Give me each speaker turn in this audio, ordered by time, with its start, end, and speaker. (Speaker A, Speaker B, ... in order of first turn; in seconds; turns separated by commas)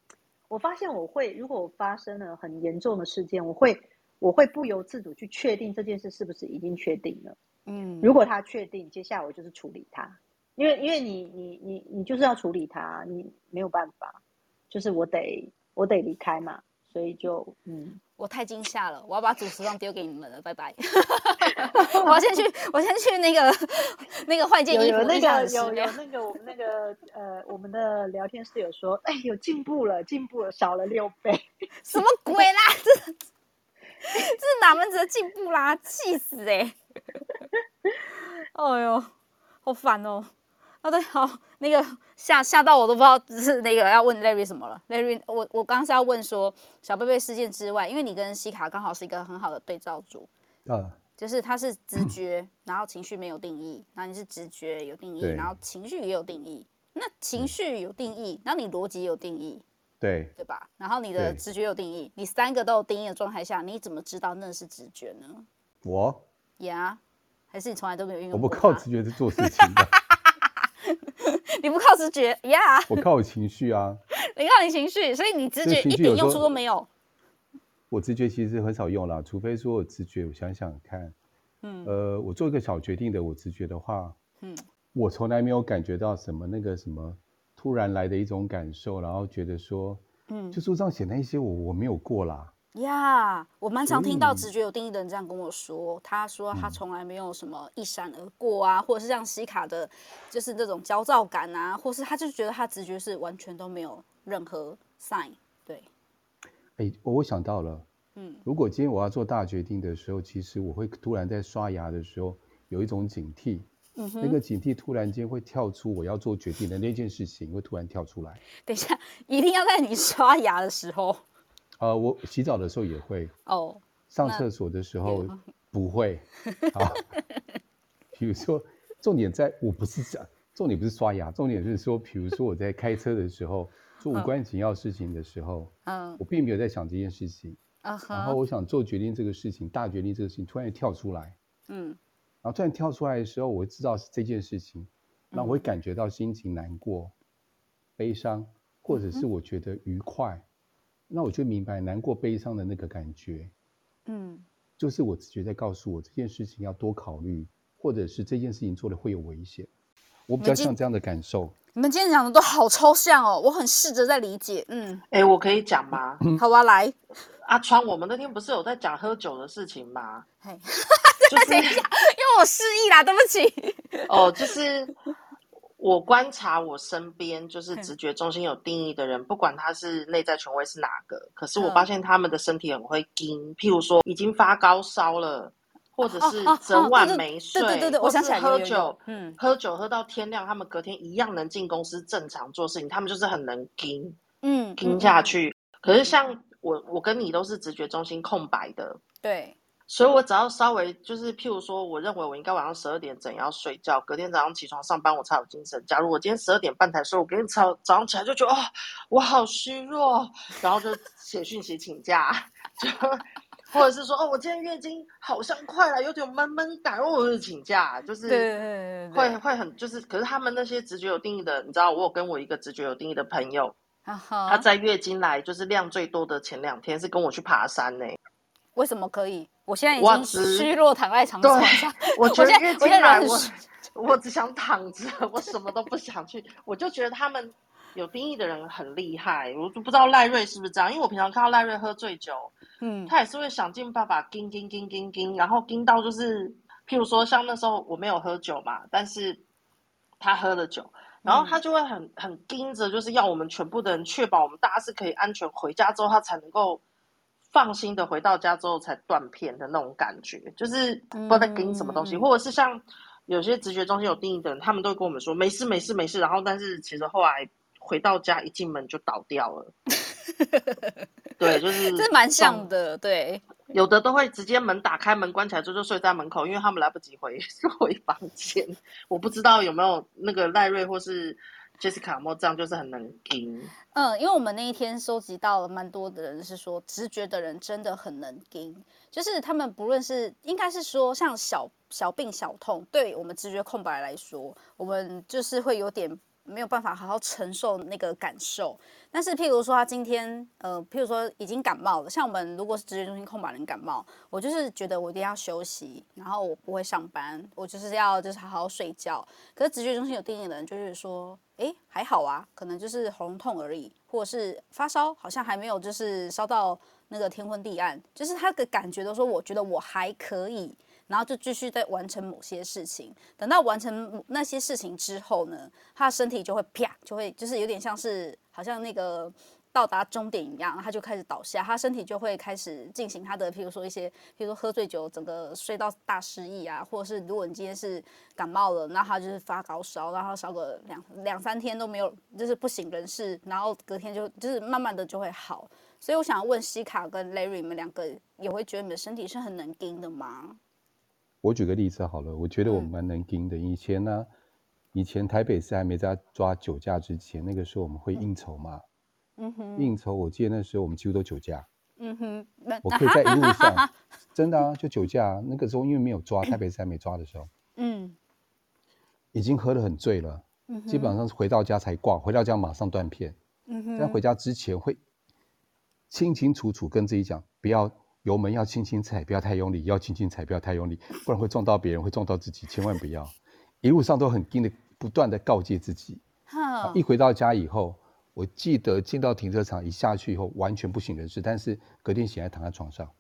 Speaker A: 0.5-7.4, Speaker B: 7.7-8.2, Speaker A: 8.0-18.0, Speaker B: 18.2-26.0, Speaker A: 21.7-22.2, Speaker A: 24.7-32.0, Speaker B: 31.9-33.2, Speaker B: 34.0-36.8, Speaker B: 38.5-39.1, Speaker B: 39.6-40.3, Speaker B: 40.8-50.3, Speaker C: 50.7-51.0, Speaker B: 51.2-59.6, Speaker C: 55.2-55.5, Speaker C: 60.0-60.3, Speaker B: 60.4-65.5, Speaker C: 61.1-61.4, Speaker C: 65.8-66.2, Speaker B: 66.6-67.0, Speaker B: 67.5-68.9, Speaker C: 68.3-69.9, Speaker B: 69.4-70.3, Speaker B: 71.2-73.0, Speaker C: 72.9-74.0, Speaker B: 74.3-76.9, Speaker C: 75.6-76.5, Speaker C: 77.9-81.2, Speaker B: 81.6-82.0, Speaker C: 81.8-84.2, Speaker C: 84.9-92.5, Speaker B: 90.3-90.6, Speaker B: 92.8-105.9, Speaker C: 93.9-94.5, Speaker C: 96.5-96.8, Speaker C: 106.8-107.9, Speaker B: 108.2-108.4, Speaker C: 108.5-113.7, Speaker B: 114.0-114.4, Speaker C: 114.2-118.4, Speaker B: 118.7-121.2, Speaker C: 121.8-123.3, Speaker B: 123.5-124.5, Speaker C: 124.1-127.0, Speaker B: 125.0-125.4, Speaker C: 128.1-137.6, Speaker B: 134.1-134.3, Speaker B: 135.9-136.2, Speaker B: 137.8-138.4, Speaker C: 138.1-141.4, Speaker B: 141.7-142.0, Speaker C: 142.4-147.2, Speaker B: 145.3-145.7, Speaker C: 148.0-150.5, Speaker B: 148.9-149.3, Speaker C: 151.1-153.5, Speaker B: 154.1-154.5, Speaker C: 154.8-159.7, Speaker C: 160.3-161.6, Speaker B: 160.4-160.8, Speaker B: 161.8-165.0, Speaker D: 165.1-166.2, Speaker B: 166.4-167.0, Speaker D: 167.4-170.2, Speaker B: 170.4-174.3, Speaker D: 171.3-171.8, Speaker D: 174.1-174.9, Speaker D: 175.8-194.2, Speaker B: 181.6-181.9, Speaker B: 186.1-189.4, Speaker B: 194.4-195.2, Speaker D: 194.8-199.0, Speaker B: 199.2-199.6, Speaker D: 199.9-218.5, Speaker B: 218.3-219.4, Speaker D: 219.1-223.8, Speaker B: 224.1-224.7, Speaker D: 224.5-228.2, Speaker B: 228.8-233.6, Speaker D: 230.0-230.7, Speaker D: 231.4-242.5, Speaker B: 242.8-243.1, Speaker D: 243.1-249.4, Speaker D: 250.2-256.8, Speaker B: 251.2-251.6, Speaker D: 257.5-269.7, Speaker B: 261.1-262.2, Speaker B: 270.4-271.0, Speaker D: 271.4-272.7, Speaker B: 271.9-273.4, Speaker D: 273.7-283.7, Speaker B: 283.9-350.6, Speaker C: 351.4-354.3, Speaker B: 352.7-352.9, Speaker C: 354.9-358.8, Speaker B: 359.4-360.0, Speaker C: 359.8-361.7, Speaker B: 362.0-363.9, Speaker C: 362.8-367.5, Speaker B: 367.8-368.2, Speaker C: 369.3-373.4, Speaker B: 370.7-371.1, Speaker B: 373.7-374.2, Speaker C: 374.0-375.0, Speaker C: 376.1-386.2, Speaker B: 386.5-387.0, Speaker C: 386.8-393.1